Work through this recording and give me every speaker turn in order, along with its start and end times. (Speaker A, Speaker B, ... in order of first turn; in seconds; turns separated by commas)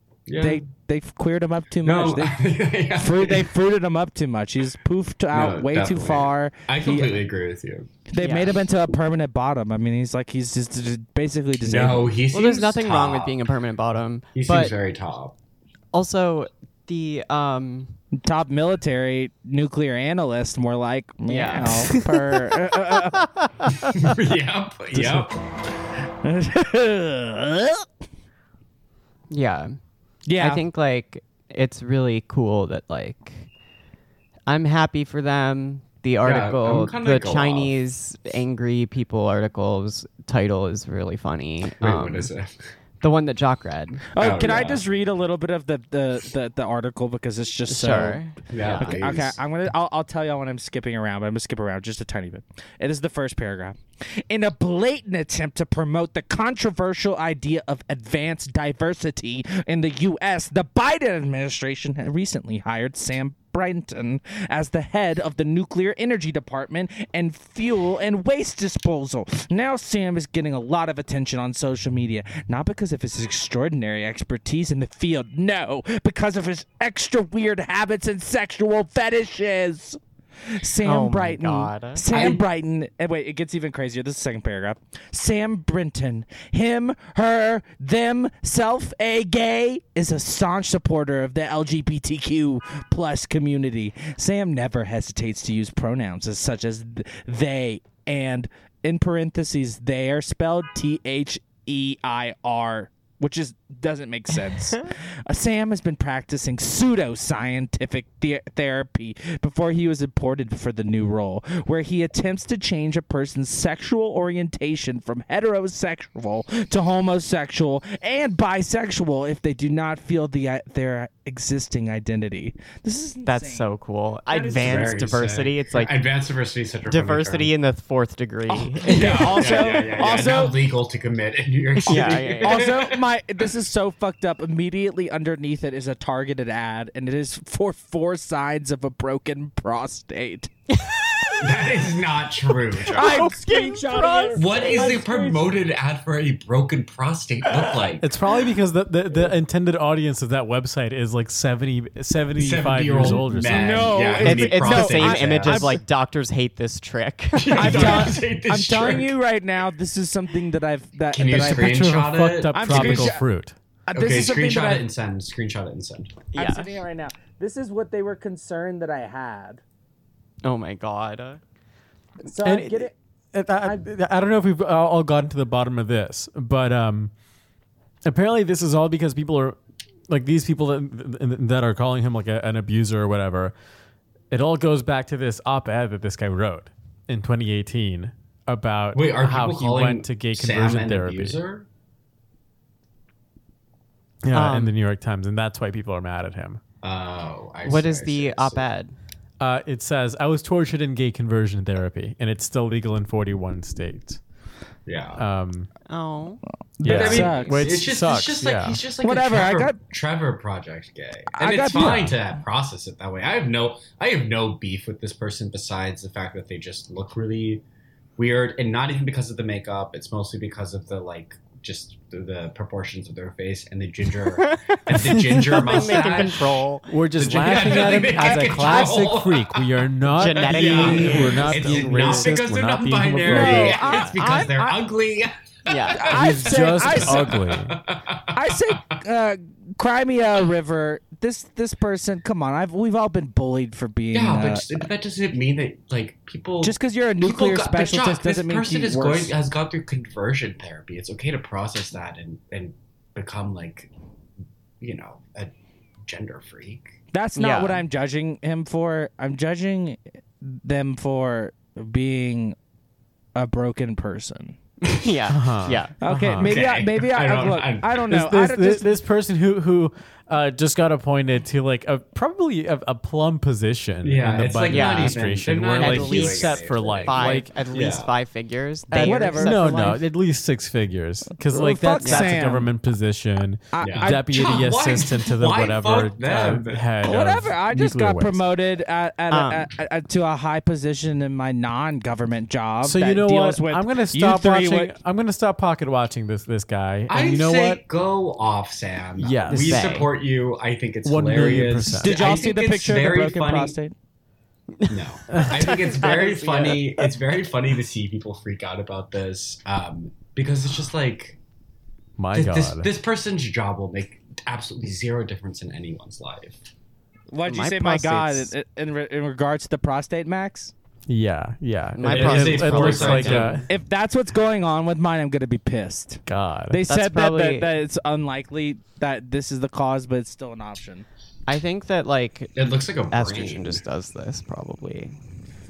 Speaker A: 0.3-0.6, Speaker B: 0.4-2.4, Speaker A: 1.8-3.5, Speaker B: 2.9-7.2, Speaker A: 5.3-7.9, Speaker B: 8.1-12.2, Speaker C: 8.2-8.6, Speaker A: 11.6-13.4, Speaker C: 12.3-14.7, Speaker A: 14.3-15.4, Speaker C: 15.9-18.0, Speaker B: 18.2-23.8, Speaker C: 21.3-22.1, Speaker A: 23.9-25.4, Speaker B: 24.9-25.3, Speaker B: 26.2-27.9, Speaker C: 29.3-29.8, Speaker B: 30.3-30.6, Speaker C: 30.4-33.5, Speaker C: 34.5-42.3, Speaker A: 36.2-37.8, Speaker A: 41.8-42.5, Speaker C: 43.0-44.0, Speaker B: 44.1-48.2, Speaker A: 44.2-44.8, Speaker C: 47.7-49.0, Speaker A: 48.5-49.4, Speaker B: 48.7-123.7, Speaker C: 80.8-82.0, Speaker A: 82.1-82.5, Speaker C: 123.2-126.0, Speaker B: 124.3-124.9, Speaker A: 124.5-127.5, Speaker C: 126.9-129.8, Speaker B: 128.6-130.6, Speaker A: 128.8-133.0, Speaker C: 131.9-132.7, Speaker B: 132.0-140.5, Speaker C: 140.7-141.5, Speaker A: 141.4-143.3, Speaker B: 142.8-145.5, Speaker C: 142.9-144.9, Speaker A: 144.3-148.1, Speaker D: 148.0-153.9, Speaker A: 152.4-155.8, Speaker B: 153.5-155.8, Speaker C: 154.2-158.2, Speaker A: 157.3-159.1, Speaker B: 157.5-161.7, Speaker A: 161.1-163.2, Speaker D: 161.5-163.5, Speaker B: 162.5-163.2, Speaker B: 163.9-164.9, Speaker A: 163.9-166.2, Speaker C: 166.3-166.7, Speaker B: 166.3-169.6, Speaker C: 170.4-171.4, Speaker B: 172.2-172.9, Speaker D: 172.4-177.1, Speaker D: 178.1-179.6, Speaker D: 180.1-183.5, Speaker D: 184.3-191.4, Speaker A: 188.9-191.7, Speaker D: 194.2-196.6, Speaker C: 194.3-194.7, Speaker A: 196.8-198.7, Speaker C: 197.7-198.9, Speaker D: 199.4-204.2, Speaker A: 204.9-205.2, Speaker D: 205.2-205.7, Speaker C: 205.9-206.4, Speaker B: 206.8-207.5, Speaker D: 206.8-208.8, Speaker A: 206.8-217.6, Speaker B: 209.0-209.8, Speaker B: 211.3-212.1, Speaker D: 211.8-212.1, Speaker A: 218.2-226.5, Speaker C: 224.4-226.9, Speaker D: 225.0-225.6, Speaker D: 226.9-233.9, Speaker A: 227.1-229.8, Speaker B: 228.1-228.9, Speaker C: 230.2-232.3, Speaker A: 230.4-238.6, Speaker B: 233.3-234.8, Speaker C: 233.8-234.1, Speaker C: 235.7-236.1, Speaker B: 235.9-237.4, Speaker D: 236.1-237.8, Speaker B: 238.3-244.8, Speaker A: 244.1-253.9, Speaker B: 246.6-249.3, Speaker A: 254.8-255.5, Speaker A: 256.1-256.9, Speaker B: 257.1-262.6, Speaker C: 257.4-257.9, Speaker B: 263.4-264.6, Speaker C: 264.8-266.0, Speaker D: 265.3-266.6, Speaker B: 266.0-268.9, Speaker A: 266.4-268.1, Speaker D: 268.1-277.5, Speaker A: 274.0-278.1, Speaker C: 274.7-275.2, Speaker C: 275.8-280.0, Speaker B: 278.9-280.0, Speaker D: 279.0-288.5, Speaker B: 281.5-282.7, Speaker C: 282.0-282.4, Speaker B: 283.7-284.5, Speaker A: 283.8-286.9, Speaker B: 287.0-294.9, Speaker C: 289.3-289.7, Speaker D: 292.8-297.8, Speaker A: 297.1-303.8, Speaker D: 299.2-299.9, Speaker C: 299.5-300.1, Speaker D: 301.1-302.4, Speaker B: 302.0-303.9, Speaker C: 304.8-307.1, Speaker A: 304.9-311.4, Speaker D: 312.2-312.9, Speaker A: 312.3-316.6, Speaker B: 317.3-320.7, Speaker C: 317.5-318.5, Speaker D: 321.1-323.7, Speaker C: 321.9-323.6, Speaker A: 322.0-323.6, Speaker B: 323.7-331.1, Speaker D: 326.3-326.8, Speaker C: 326.9-327.7, Speaker C: 331.5-332.6, Speaker A: 332.6-333.8, Speaker C: 333.1-335.2